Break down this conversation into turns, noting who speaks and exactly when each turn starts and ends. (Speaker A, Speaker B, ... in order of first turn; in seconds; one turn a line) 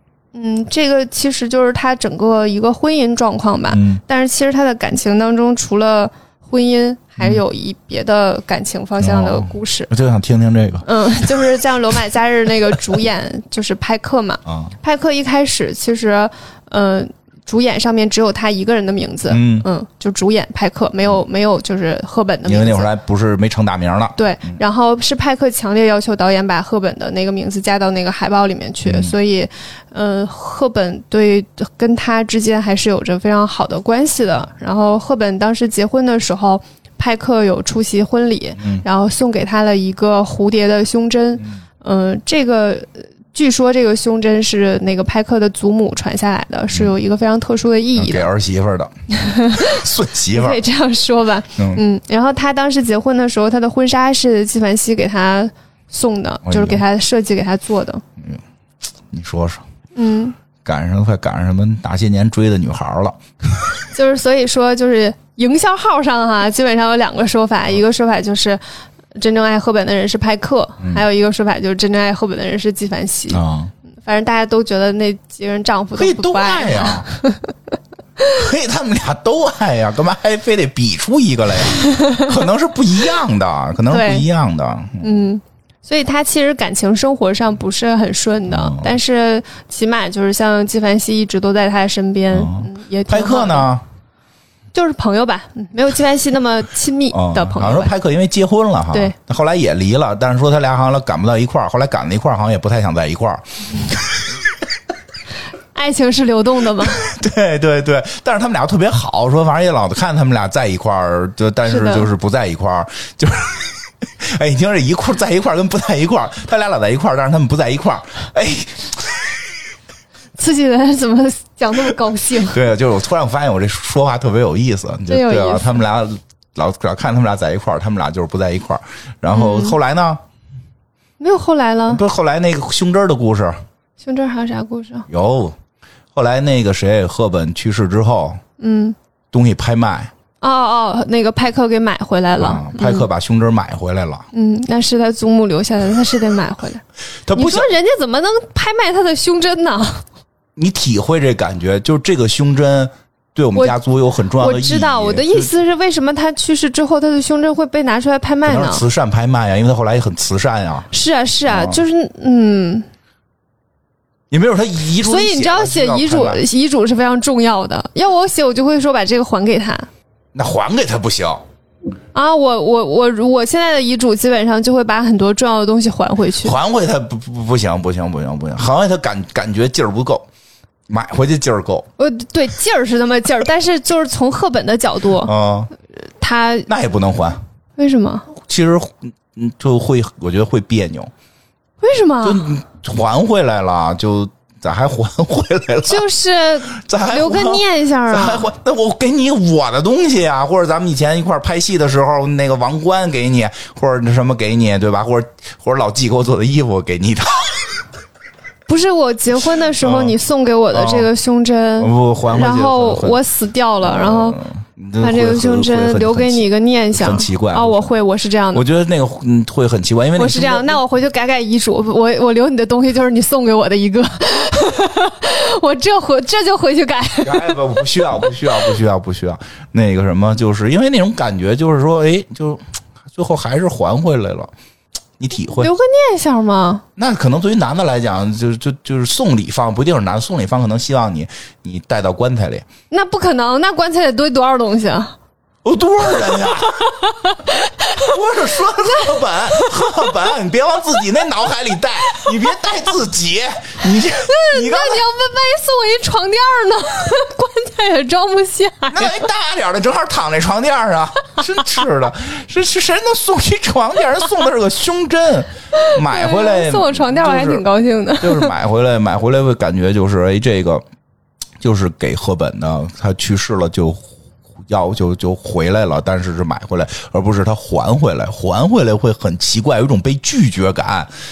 Speaker A: 0.3-9.9
Speaker B: 3.7-4.0
Speaker B: 9.0-11.3
Speaker A: 10.8-22.9
Speaker B: 14.5-14.7
Speaker B: 19.3-19.6
Speaker B: 22.4-24.2
Speaker A: 24.2-48.3
Speaker B: 28.8-29.1
Speaker B: 38.6-38.8
Speaker B: 48.0-48.9
Speaker A: 49.1-58.0
Speaker B: 49.5-50.6
Speaker B: 51.6-51.8
Speaker B: 56.5-56.8
Speaker B: 59.1-59.6
Speaker A: 60.0-60.4
Speaker B: 60.6-63.9
Speaker A: 63.9-68.6
Speaker A: 69.1-73.4
Speaker B: 73.3-73.7
Speaker A: 74.0-77.5
Speaker B: 76.0-77.1
Speaker B: 78.3-85.1
Speaker A: 81.7-82.3
Speaker A: 83.9-84.3
Speaker A: 85.0-93.7
Speaker B: 88.5-88.9
Speaker B: 92.3-93.8
Speaker A: 94.7-97.9
Speaker B: 97.1-104.5
Speaker A: 105.7-107.1
Speaker B: 106.8-119.6
Speaker A: 111.7-112.1
Speaker A: 120.4-122.6
Speaker B: 122.3-130.2
Speaker A: 125.1-125.8
Speaker A: 129.3-129.8
Speaker A: 131.2-132.0
Speaker B: 131.9-133.6
Speaker A: 134.0-135.1
Speaker B: 135.1-135.6
Speaker B: 136.1-138.4
Speaker A: 138.6-138.9
Speaker B: 139.3-140.1
Speaker A: 140.4-143.1
Speaker B: 142.4-144.3
Speaker A: 144.3-150.0
Speaker B: 147.2-147.7
Speaker B: 150.6-155.5
Speaker A: 153.5-153.8
Speaker A: 154.4-158.8
Speaker B: 158.4-160.9
Speaker A: 160.9-162.8
Speaker B: 161.5-161.8
Speaker B: 164.3-166.4
Speaker A: 165.0-169.9
Speaker B: 170.3-171.4
Speaker A: 172.1-176.6
Speaker B: 176.4-180.3
Speaker B: 180.9-181.9
Speaker A: 182.0-185.3
Speaker B: 185.2-185.7
Speaker A: 186.0-186.7
Speaker B: 186.7-187.4
Speaker A: 187.8-188.3
Speaker B: 188.4-191.1
Speaker A: 191.8-192.5
Speaker B: 192.2-196.1
Speaker A: 195.9-198.5
Speaker B: 196.7-207.8
Speaker A: 208.7-214.4
Speaker B: 209.8-210.1
Speaker B: 210.7-211.1
Speaker B: 211.8-213.2
Speaker B: 213.8-217.9
Speaker A: 215.0-218.6
Speaker B: 218.5-220.8
Speaker A: 220.2-227.6
Speaker B: 227.2-232.6
Speaker B: 233.1-234.5
Speaker B: 235.2-235.7
Speaker A: 235.6-236.8
Speaker B: 236.9-242.7
Speaker A: 242.9-245.1
Speaker B: 245.6-247.0
Speaker A: 246.7-248.1
Speaker B: 247.8-255.0
Speaker A: 248.8-250.2
Speaker A: 252.0-252.6
Speaker A: 254.0-259.2
Speaker B: 258.9-267.6
Speaker A: 265.7-268.5
Speaker B: 268.2-270.8
Speaker B: 271.6-274.1
Speaker B: 274.6-281.1